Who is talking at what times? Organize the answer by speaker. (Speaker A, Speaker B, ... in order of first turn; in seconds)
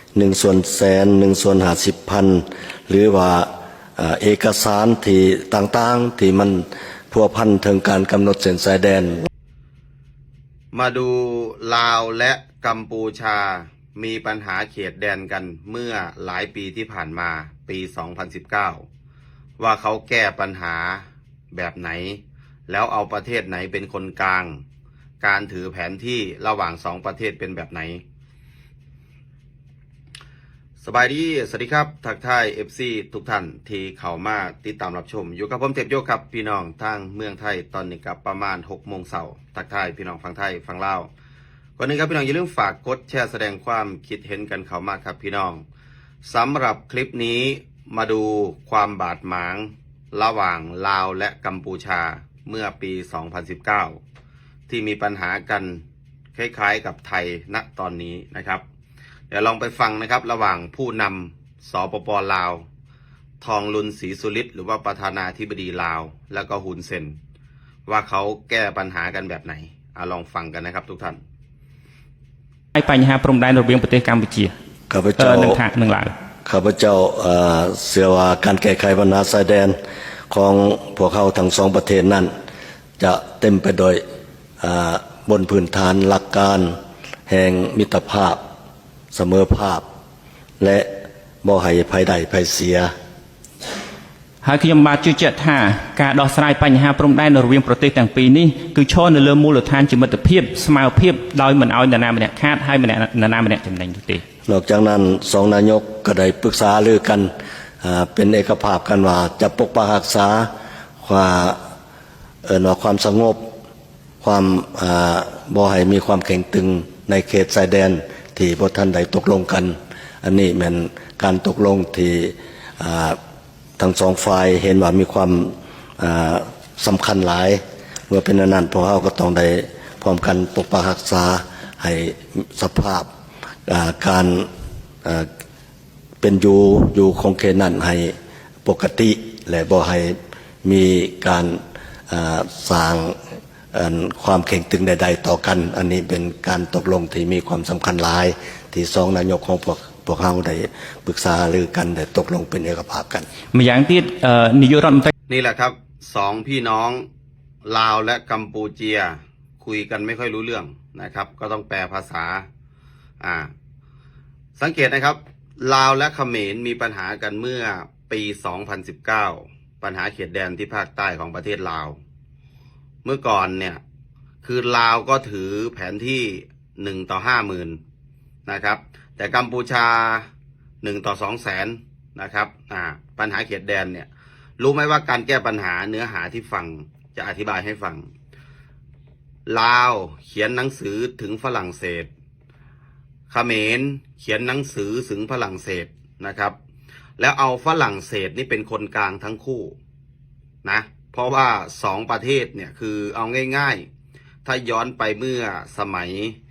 Speaker A: 0.1-9.3, 74.9-75.6, 76.4-79.8, 80.3-82.3, 83.0-84.0, 84.6-86.7, 87.3-88.4, 89.1-89.8, 90.6-90.9, 91.4-92.9, 104.5-107.3, 107.8-110.5, 111.0-111.6, 112.4-113.4, 114.2-123.2, 123.8-133.1, 133.7-134.5, 136.2-138.1, 138.6-143.2, 143.7-153.3
Speaker B: 10.7-18.9, 19.6-24.6, 25.2-28.0, 30.8-41.1, 41.8-45.6, 46.2-54.0, 54.7-55.8, 56.3-58.6, 59.3-62.6, 63.4-67.2, 67.9-71.2, 155.3-157.1, 157.6-162.4, 163.2-163.5, 164.6-172.0, 173.0-173.8, 174.4-177.8, 178.4-180.3, 180.8-188.1, 189.4-192.1, 193.3-196.5, 197.2-199.8, 200.6-203.8, 204.4-206.3
Speaker C: 72.7-74.5, 75.2-76.1, 94.4-104.2, 153.5-155.1